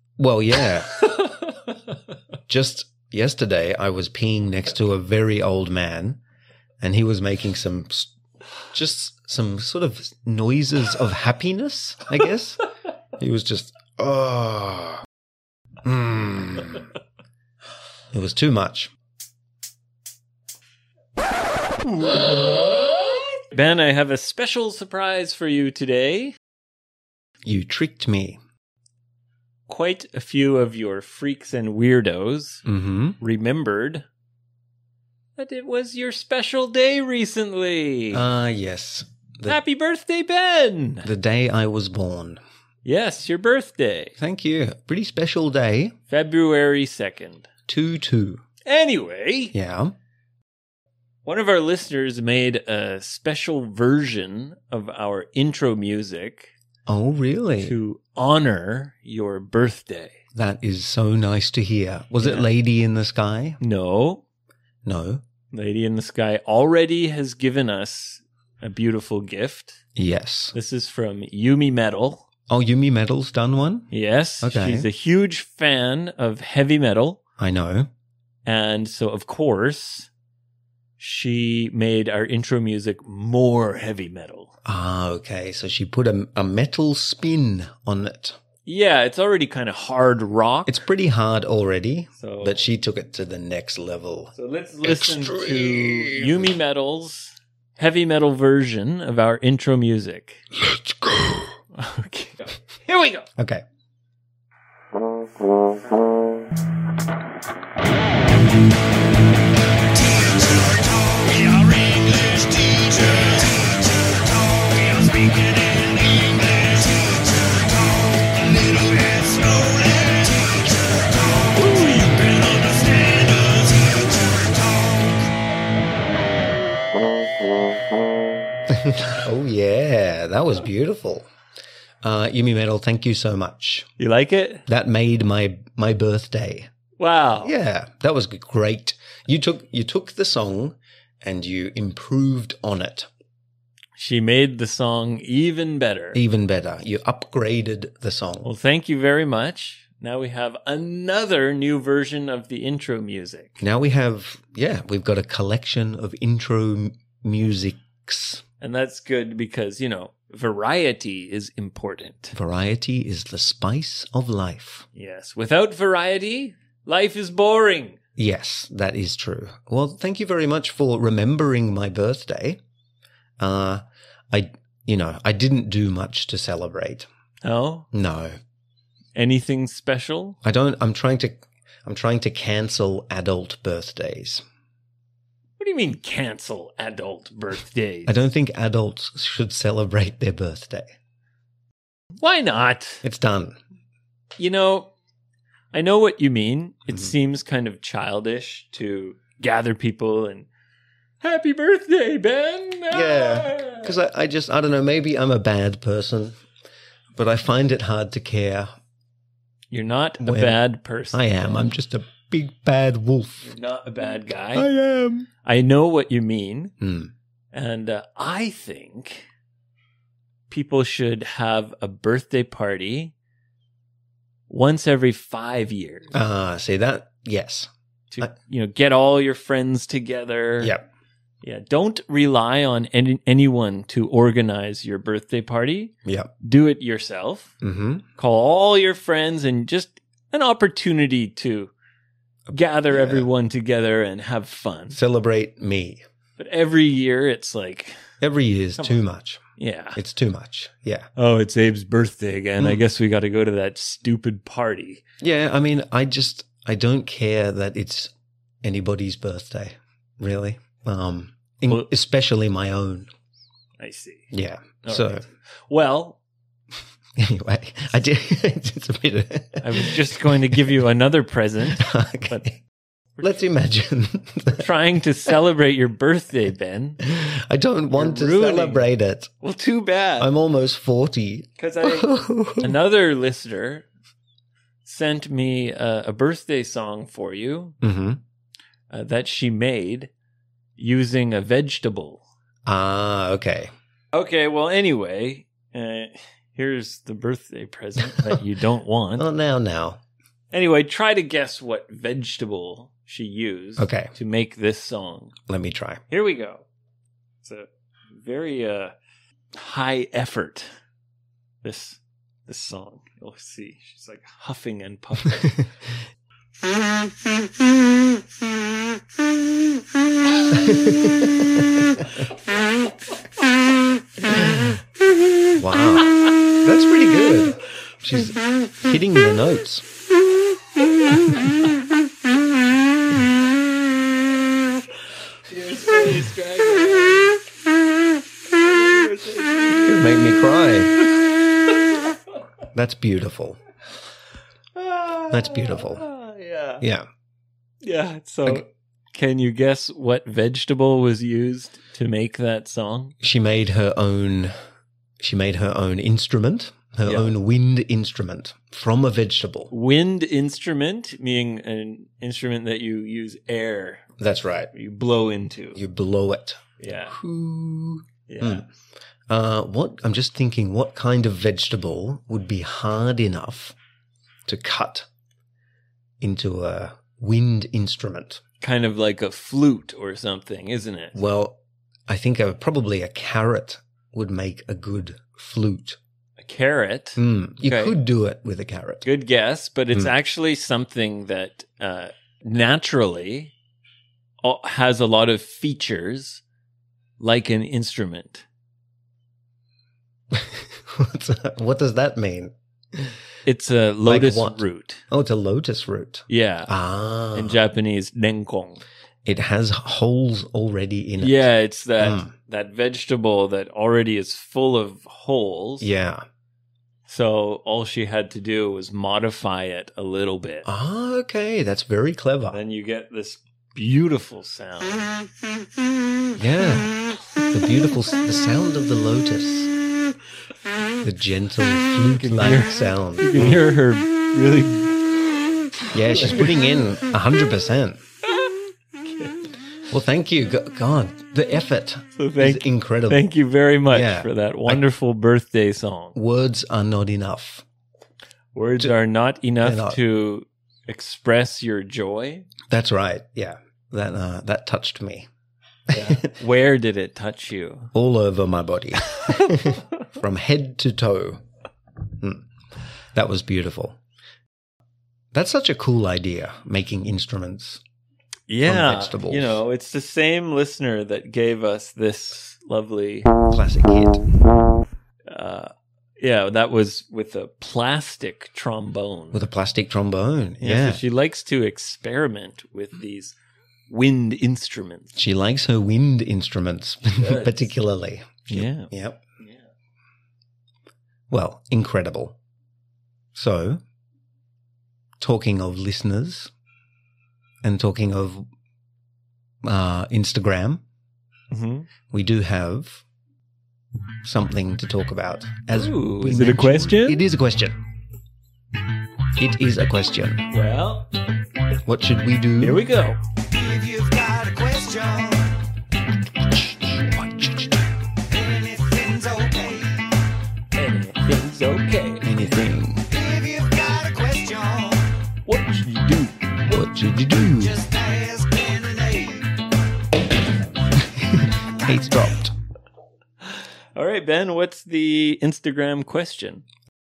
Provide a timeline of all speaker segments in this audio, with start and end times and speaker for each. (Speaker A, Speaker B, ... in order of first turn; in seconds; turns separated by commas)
Speaker A: 0.2-1.0, Speaker B: 0.9-1.6, Speaker A: 2.5-6.2, Speaker A: 6.8-8.1, Speaker A: 8.7-12.6, Speaker A: 13.2-15.0, Speaker A: 15.8-16.9, Speaker A: 18.1-18.9, Speaker B: 22.0-26.3, Speaker A: 27.4-28.4, Speaker B: 29.7-32.6, Speaker A: 32.7-33.2, Speaker B: 33.2-34.0, Speaker B: 35.4-38.3, Speaker A: 38.1-39.6, Speaker B: 39.5-41.1, Speaker A: 41.0-42.4, Speaker B: 42.9-44.1, Speaker A: 44.2-46.0, Speaker B: 46.1-47.5, Speaker A: 47.7-48.4, Speaker B: 48.6-49.5, Speaker A: 49.5-49.9, Speaker B: 51.3-56.5, Speaker A: 56.9-57.7, Speaker B: 57.6-60.2, Speaker A: 60.4-63.6, Speaker B: 62.2-62.5, Speaker B: 63.6-64.2, Speaker A: 64.8-65.2, Speaker B: 65.5-69.8, Speaker A: 70.0-70.5, Speaker B: 70.5-72.3, Speaker A: 72.5-73.9, Speaker B: 73.9-77.2, Speaker A: 74.4-74.9, Speaker A: 77.4-77.9, Speaker B: 78.5-80.1, Speaker B: 81.0-84.5, Speaker A: 84.7-88.4, Speaker B: 88.7-90.8, Speaker A: 90.7-96.5, Speaker B: 92.2-92.6, Speaker B: 94.3-100.4, Speaker A: 100.6-101.5, Speaker B: 101.7-103.3, Speaker A: 103.4-103.6, Speaker B: 111.6-112.3, Speaker B: 114.8-115.8, Speaker C: 118.2-121.6, Speaker B: 121.5-123.7, Speaker A: 128.7-131.3, Speaker A: 132.0-133.9, Speaker B: 134.0-134.7, Speaker A: 134.7-136.7, Speaker B: 137.0-137.5, Speaker A: 137.4-143.1, Speaker B: 144.0-146.2, Speaker A: 146.1-148.5, Speaker B: 148.4-153.6, Speaker A: 153.6-158.4, Speaker B: 158.6-162.4, Speaker A: 162.3-164.8, Speaker B: 164.9-168.0, Speaker A: 168.2-172.6, Speaker A: 173.4-177.1, Speaker B: 177.4-177.9, Speaker A: 177.9-178.4, Speaker B: 179.2-180.4, Speaker A: 180.4-184.4, Speaker B: 185.6-188.2, Speaker A: 188.1-190.9, Speaker B: 192.2-193.0, Speaker A: 193.0-193.6, Speaker B: 194.4-194.9, Speaker B: 195.7-200.5, Speaker B: 201.2-203.9, Speaker A: 202.9-206.3, Speaker A: 207.2-208.7, Speaker B: 209.7-211.7, Speaker A: 210.2-213.5, Speaker B: 213.4-214.7, Speaker A: 214.6-215.3, Speaker B: 215.4-216.7, Speaker A: 216.8-217.1, Speaker B: 217.5-219.3, Speaker B: 220.5-223.1, Speaker B: 224.5-226.2, Speaker A: 226.1-227.7, Speaker B: 228.1-230.7, Speaker A: 230.6-230.9, Speaker B: 231.4-237.5, Speaker A: 236.1-236.3, Speaker A: 237.6-238.0, Speaker B: 238.2-241.7, Speaker A: 242.5-243.3, Speaker B: 242.5-245.0, Speaker A: 244.9-246.0, Speaker B: 246.4-248.0, Speaker A: 248.2-249.4, Speaker B: 249.6-250.0, Speaker A: 250.0-251.1, Speaker B: 251.2-255.0, Speaker A: 255.2-258.1, Speaker A: 258.6-263.1, Speaker B: 263.8-264.3, Speaker A: 264.3-265.2, Speaker B: 264.9-266.2, Speaker A: 267.2-270.4, Speaker B: 269.6-272.4, Speaker A: 271.7-272.6, Speaker A: 273.2-274.7, Speaker B: 274.5-277.0, Speaker A: 277.0-279.3, Speaker B: 277.9-278.9, Speaker B: 279.4-280.3, Speaker A: 280.2-282.8, Speaker B: 281.6-283.9, Speaker B: 284.9-287.8, Speaker A: 287.8-288.2, Speaker B: 288.9-290.1, Speaker B: 290.8-292.2, Speaker A: 292.7-293.7, Speaker B: 294.1-299.3, Speaker A: 299.2-300.0, Speaker B: 300.5-305.4, Speaker A: 303.8-304.1, Speaker A: 305.5-306.0, Speaker B: 306.1-306.6, Speaker B: 307.4-308.9, Speaker B: 309.5-310.7, Speaker B: 311.6-315.6, Speaker A: 320.5-322.0, Speaker A: 325.6-329.9, Speaker B: 335.5-337.3, Speaker B: 338.6-340.3, Speaker A: 339.9-341.0, Speaker A: 342.7-343.6, Speaker B: 344.8-346.8, Speaker A: 345.3-346.1, Speaker A: 346.8-347.1, Speaker B: 347.8-353.1, Speaker A: 353.2-354.5, Speaker A: 355.2-359.7, Speaker B: 357.1-357.3, Speaker B: 359.7-364.1, Speaker A: 364.2-364.7, Speaker B: 364.7-365.8, Speaker A: 365.8-368.7, Speaker B: 366.8-367.2, Speaker B: 368.3-368.7, Speaker A: 369.3-373.8, Speaker A: 374.5-375.1, Speaker A: 376.2-378.4, Speaker B: 378.6-381.2, Speaker A: 381.1-386.0, Speaker B: 386.4-388.0, Speaker A: 387.2-389.1, Speaker B: 389.0-393.5, Speaker B: 394.4-396.4, Speaker B: 397.2-398.4, Speaker A: 400.3-403.1, Speaker B: 403.4-405.0, Speaker A: 404.1-407.6, Speaker B: 406.3-406.7, Speaker B: 407.3-408.8, Speaker A: 409.2-411.5, Speaker B: 411.2-415.9, Speaker A: 412.0-412.3, Speaker A: 415.8-416.2, Speaker B: 417.1-420.7, Speaker A: 420.6-422.6, Speaker B: 422.5-425.1, Speaker A: 426.4-426.9, Speaker A: 427.5-429.7, Speaker A: 431.0-433.6, Speaker B: 432.2-435.0, Speaker A: 435.9-438.0, Speaker B: 436.1-436.6, Speaker B: 439.1-439.4, Speaker A: 439.9-443.2, Speaker B: 442.2-446.1, Speaker A: 443.9-444.8, Speaker A: 446.1-447.6, Speaker B: 448.5-452.5, Speaker A: 449.6-450.0, Speaker A: 452.7-455.3, Speaker B: 455.9-457.9, Speaker A: 455.9-456.3, Speaker A: 457.9-461.4, Speaker B: 459.2-459.7, Speaker A: 462.2-462.5, Speaker A: 463.1-464.0, Speaker A: 465.3-467.8, Speaker B: 468.5-473.3, Speaker A: 468.6-469.6, Speaker A: 473.5-474.2, Speaker B: 475.3-479.4, Speaker A: 479.3-481.0, Speaker B: 480.6-483.4, Speaker B: 483.9-485.1, Speaker A: 485.2-489.2, Speaker B: 487.2-487.7, Speaker B: 488.5-489.6, Speaker A: 491.3-492.4, Speaker A: 493.3-493.8, Speaker A: 495.2-496.5, Speaker A: 497.6-498.5, Speaker A: 499.6-500.8, Speaker B: 501.5-501.9, Speaker A: 502.1-503.0, Speaker A: 504.2-507.8, Speaker B: 505.7-507.2, Speaker A: 509.4-510.5, Speaker B: 510.5-511.1, Speaker A: 511.9-512.9, Speaker B: 512.6-513.2, Speaker C: 513.5-515.5, Speaker A: 516.5-517.8, Speaker C: 518.3-520.1, Speaker B: 520.8-522.3, Speaker A: 522.2-523.1, Speaker C: 523.1-525.1, Speaker B: 525.5-526.4, Speaker A: 526.7-527.8, Speaker C: 527.6-529.5, Speaker A: 531.0-532.5, Speaker B: 533.5-536.6